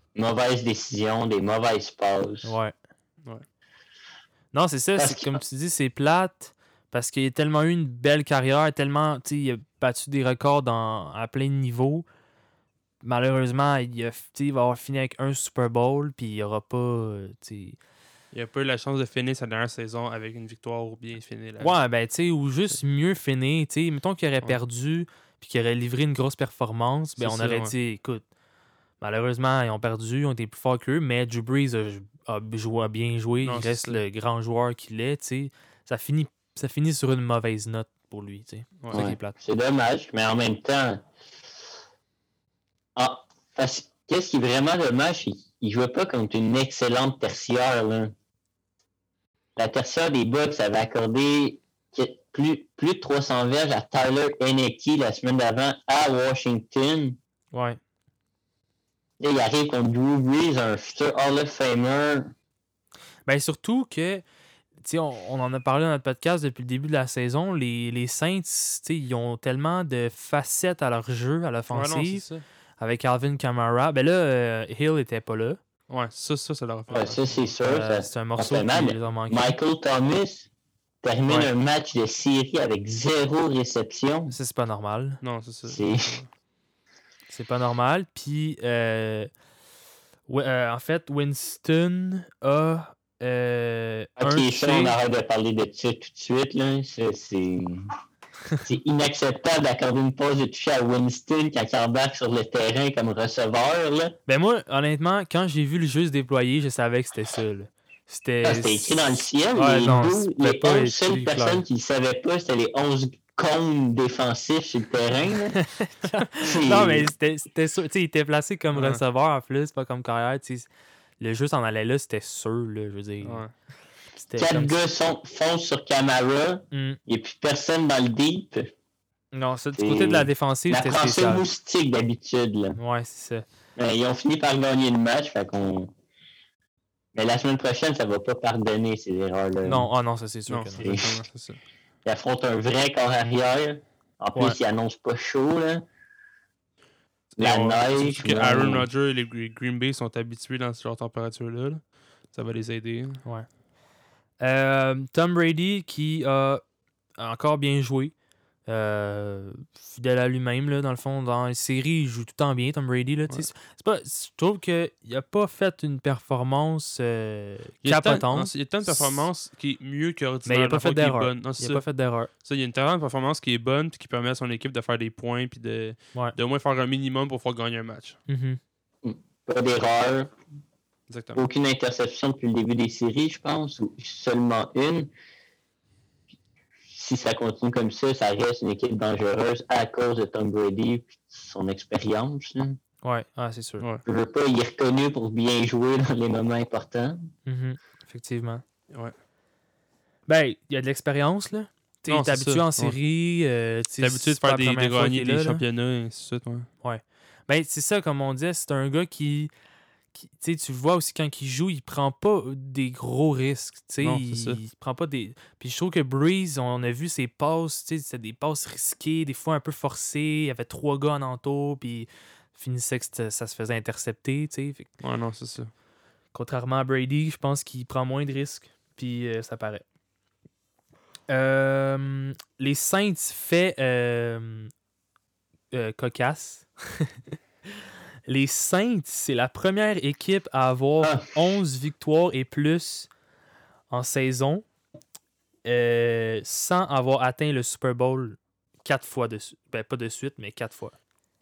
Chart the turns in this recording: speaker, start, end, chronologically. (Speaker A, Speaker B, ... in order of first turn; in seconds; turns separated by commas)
Speaker A: 0.1-2.5, Speaker B: 2.4-2.7, Speaker B: 4.5-12.1, Speaker A: 5.0-5.4, Speaker B: 13.0-17.8, Speaker C: 18.3-21.7, Speaker B: 21.6-28.2, Speaker C: 27.2-27.7, Speaker B: 29.0-39.4, Speaker C: 33.4-34.0, Speaker A: 38.9-41.0, Speaker A: 43.0-48.1, Speaker A: 49.5-57.2, Speaker B: 57.5-57.8, Speaker A: 59.2-62.3, Speaker B: 63.2-64.2, Speaker B: 64.8-72.2, Speaker C: 71.7-72.4, Speaker B: 72.8-75.6, Speaker C: 75.9-77.4, Speaker A: 76.9-80.5, Speaker B: 77.6-79.5, Speaker A: 81.0-84.3, Speaker B: 84.3-85.2, Speaker C: 85.2-86.3, Speaker A: 85.7-86.2, Speaker B: 87.3-89.3, Speaker B: 90.3-95.0, Speaker A: 94.2-97.9, Speaker A: 98.6-104.2, Speaker B: 104.3-111.6, Speaker A: 108.4-115.6, Speaker B: 115.5-120.7, Speaker A: 116.4-117.1, Speaker C: 118.7-119.0, Speaker B: 121.2-123.4, Speaker C: 123.2-123.5, Speaker B: 124.2-124.7, Speaker A: 124.4-128.7, Speaker B: 126.7-127.0, Speaker B: 129.3-131.4, Speaker A: 129.8-132.8, Speaker B: 132.8-133.4, Speaker A: 133.8-135.9, Speaker A: 137.1-139.9, Speaker B: 139.6-140.9, Speaker C: 140.5-141.6, Speaker A: 140.8-141.2, Speaker A: 142.0-145.8, Speaker C: 147.3-151.8, Speaker A: 147.4-148.9, Speaker C: 152.3-153.2, Speaker B: 154.4-156.6, Speaker B: 157.2-158.1, Speaker B: 158.7-169.2, Speaker C: 167.8-171.9, Speaker B: 170.4-172.3, Speaker C: 172.4-178.2, Speaker B: 178.3-178.6, Speaker A: 179.0-180.3, Speaker C: 181.1-181.4, Speaker A: 181.3-185.1, Speaker A: 186.9-192.8, Speaker B: 193.0-193.8, Speaker A: 194.0-197.3, Speaker B: 197.4-198.6, Speaker B: 200.3-205.6, Speaker C: 202.1-202.9, Speaker C: 204.0-206.7, Speaker B: 206.8-209.5, Speaker B: 210.1-224.9, Speaker C: 214.0-214.6, Speaker C: 225.0-225.7, Speaker B: 226.3-229.8, Speaker B: 231.3-234.7, Speaker B: 235.7-237.1, Speaker B: 238.3-243.1, Speaker A: 241.0-241.4, Speaker B: 243.9-244.7, Speaker B: 245.6-250.9